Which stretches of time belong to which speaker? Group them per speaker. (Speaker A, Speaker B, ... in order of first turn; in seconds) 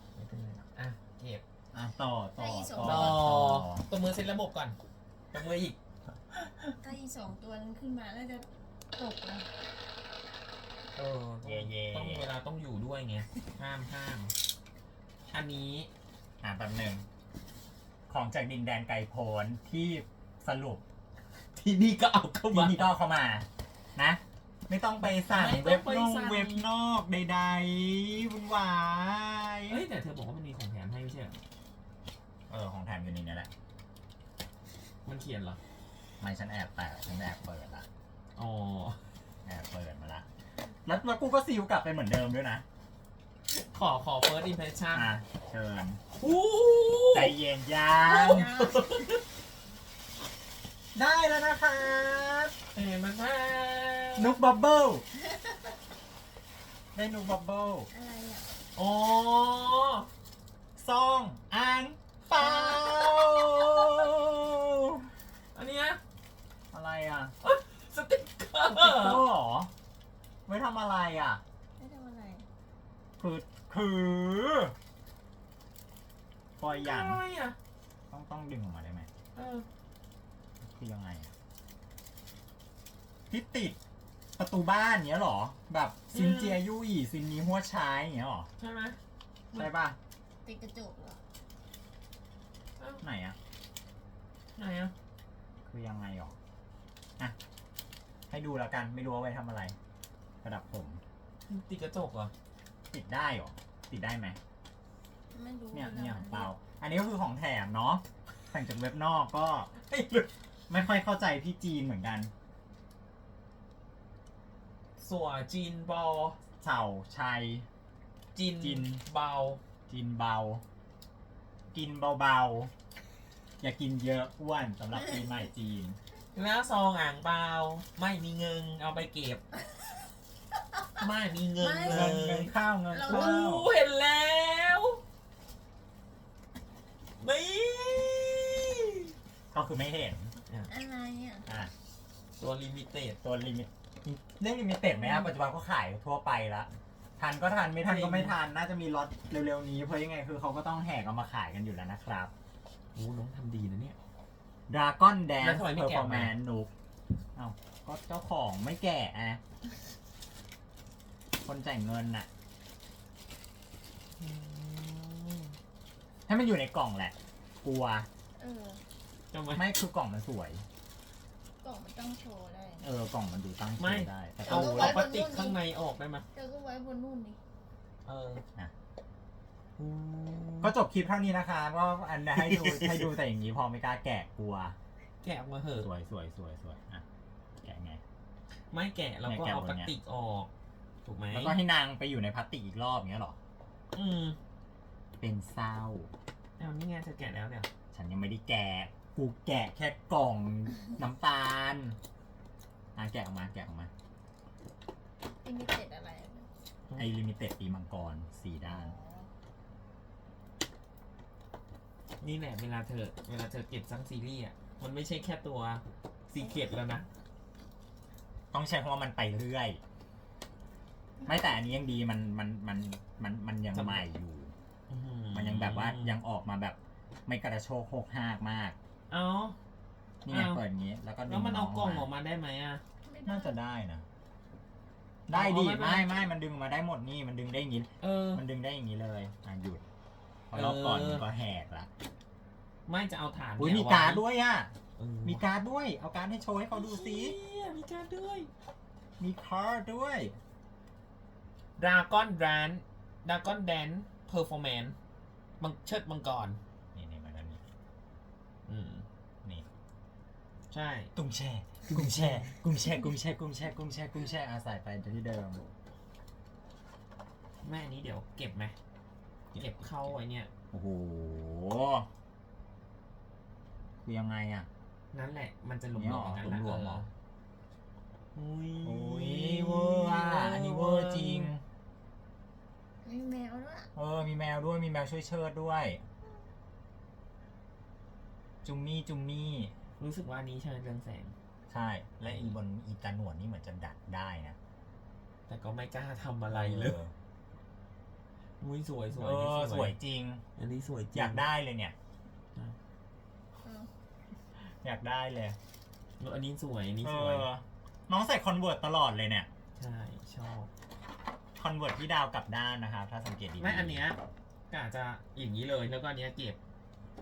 Speaker A: 0.2-1.4, 2.8-4.8, 5.3-5.8, 10.9-14.3, 15.3-15.9, 21.6-22.9, 25.3-26.7, 29.7-31.4, 35.0-35.6, 38.4-39.0, 43.5-45.1, 46.2-47.4, 48.0-49.2, 52.8-54.4, 58.8-60.1, 62.4-63.0, 65.5-66.0, 67.4-69.3, 76.7-77.6, 79.3-79.7, 86.1-86.6, 88.6-89.0, 94.6-94.9, 101.5-102.3, 109.9-110.3, 115.0-116.4, 118.3-119.6, 126.3-129.4, 131.0-135.0, 137.2-139.1, 142.4-143.2, 147.8-148.4, 152.9-154.0, 155.4-156.4, 164.2-165.6, 169.3-169.7, 173.8-176.3, 178.1-178.4, 179.8-180.8, 182.3-183.1, 185.2-185.9, 188.7-190.5, 191.1-191.6, 193.9-194.4, 196.6-197.7, 212.2-217.1, 223.7-224.1, 224.9-226.2, 229.1-229.6, 230.3-230.6, 231.3-232.8, 235.3-236.1, 238.0-238.4, 240.5-241.2, 242.9-244.2, 245.0-245.4, 246.7-248.5, 251.8-255.0, 255.6-256.6, 258.7-259.1, 260.7-261.1, 261.9-262.6, 267.6-268.8, 269.6-270.5, 275.1-277.1, 278.4-281.5, 290.0-291.4, 292.2-292.6, 295.5-297.0, 298.6-300.0, 300.6-301.5, 306.2-307.5, 309.8-310.7, 313.6-316.6
Speaker B: 1.7-3.9, 6.3-6.8, 11.4-12.3, 16.4-17.1, 18.1-20.8, 22.5-29.9, 32.5-33.5, 36.2-37.9, 39.5-40.3, 40.9-42.6, 44.9-46.0, 47.1-48.5, 51.0-52.5, 54.2-55.0, 57.0-57.9, 60.8-65.1, 66.7-67.3, 68.7-69.7, 70.5-71.4, 73.2-74.7, 76.6-77.2, 78.1-79.1, 80.6-81.3, 83.3-83.8, 84.4-88.5, 89.5-90.0, 93.0-93.4, 95.7-96.4, 98.3-99.8, 100.4-101.0, 102.9-104.4, 105.7-109.7, 110.7-112.3, 116.6-117.7, 118.6-119.0, 119.9-120.6, 121.7-122.7, 123.6-126.0, 131.8-133.7, 139.5-140.3, 141.5-141.7, 143.2-152.3, 154.7-156.7, 157.3-159.4, 161.4-162.3, 166.3-168.1, 169.5-170.7, 172.8-175.1, 180.6-184.8, 185.8-187.0, 187.6-188.0, 189.3-189.9, 191.3-193.4, 195.2-196.1, 197.9-202.0, 203.0-203.9, 207.0-209.0, 218.5-219.8, 221.2-224.5, 225.3-228.8, 230.2-232.1, 233.2-234.1, 235.3-239.9, 240.5-241.9, 243.6-244.7, 245.2-247.4, 249.2-250.4, 256.9-257.6, 261.2-265.6, 270.7-272.1, 274.0-274.7, 275.9-277.1, 278.8-281.6, 283.9-286.0, 288.6-289.7, 291.7-294.6, 296.5-297.1, 299.1-300.4, 301.1-301.9, 304.6-305.6, 307.0-309.5, 311.6-314.0
Speaker C: 2.4-3.2, 6.8-9.5, 48.1-49.1, 55.3-55.6, 57.9-58.5, 71.8-72.5, 90.4-91.2, 105.3-106.5, 131.6-132.2, 132.9-133.4, 140.7-141.5, 144.8-145.3, 168.4-168.8, 171.6-172.8, 174.5-175.6, 176.3-177.4, 205.4-206.5, 208.7-209.3, 233.0-233.6, 283.0-283.9, 303.6-303.9